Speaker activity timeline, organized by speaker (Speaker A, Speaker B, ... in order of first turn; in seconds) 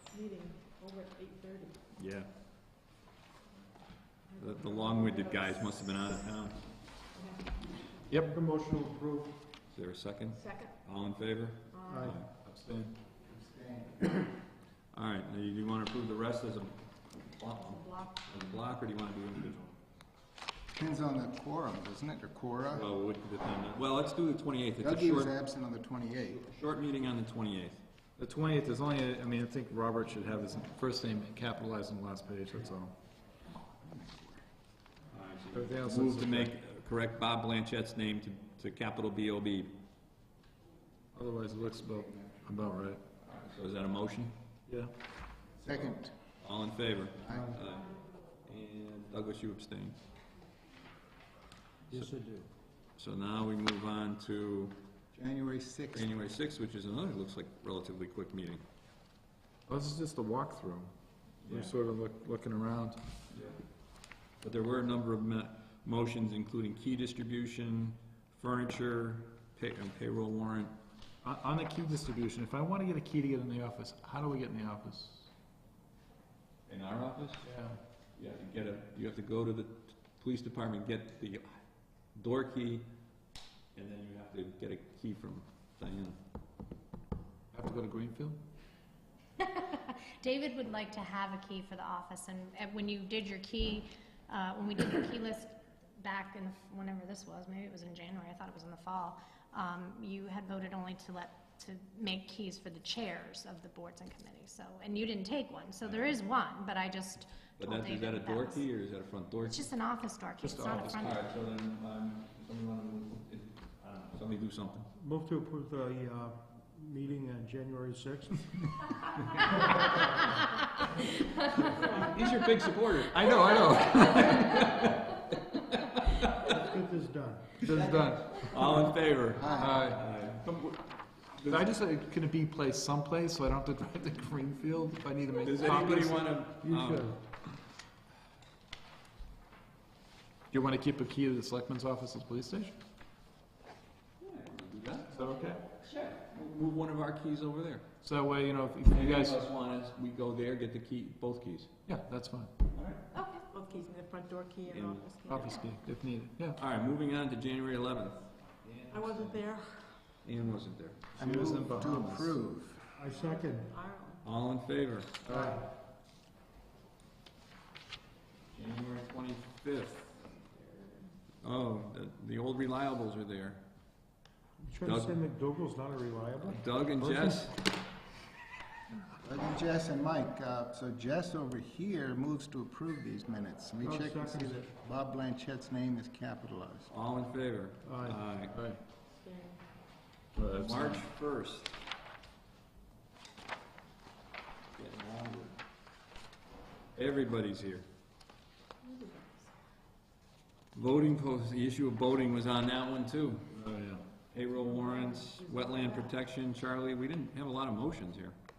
Speaker A: 0.1-1.8, 4.3-5.9, 7.1-7.7, 10.3-10.7, 11.7-12.1, 17.5-18.4, 153.1-155.7, 158.9-160.2, 163.1-164.2, 170.5-171.1, 189.1-189.6, 198.8-199.5, 204.6-206.1
Speaker B: 1.9-2.3, 4.4-6.6, 9.7-12.3, 14.9-19.7, 22.7-25.3, 26.2-27.8, 35.1-39.7, 43.2-44.4, 46.4-50.0, 53.0-54.8, 55.9-58.6, 63.3-63.6, 64.4-70.7, 76.7-77.4, 78.2-81.5, 82.1-82.8, 83.7-86.2, 105.8-106.2, 107.6-109.7, 111.0-114.9, 122.0-126.5, 127.7-131.7, 135.4-137.2, 144.2-145.1, 145.8-147.8, 148.9-151.7, 152.7-153.0, 154.7-155.1, 156.5-158.6, 160.2-161.0, 164.2-165.1, 168.5-170.2, 171.4-173.6, 174.8-175.2, 176.4-177.5, 186.9-188.6, 190.5-191.7, 194.8-195.6, 196.9-197.8, 200.7-203.5, 204.3-208.3
Speaker C: 8.1-8.3, 12.1-12.9, 28.2-32.9, 35.5-36.5, 41.1-43.0, 59.7-60.9, 61.5-63.0, 71.2-75.3, 77.4-77.8, 87.5-88.4, 110.4-111.1, 123.1-124.7, 127.6-128.9, 129.5-130.1, 131.4-136.4, 140.5-142.8, 145.1-145.6, 148.0-149.4, 151.9-152.5, 155.2-156.6, 161.2-162.3, 165.2-165.5, 188.5-188.8, 190.3-191.0, 203.5-204.0
Speaker D: 8.2-9.4, 11.9-12.2, 47.3-47.6, 51.9-52.5, 115.0-118.7, 126.5-127.6, 136.6-137.2, 163.0-163.7, 165.3-165.6, 174.6-177.4, 183.8-184.7, 187.8-188.2
Speaker E: 13.3-14.2, 20.7-22.9, 24.8-26.4, 45.6-46.1, 47.2-47.5, 55.1-56.1, 129.3-129.8, 161.2-162.8, 179.2-186.9
Speaker F: 89.4-108.7, 109.4-111.2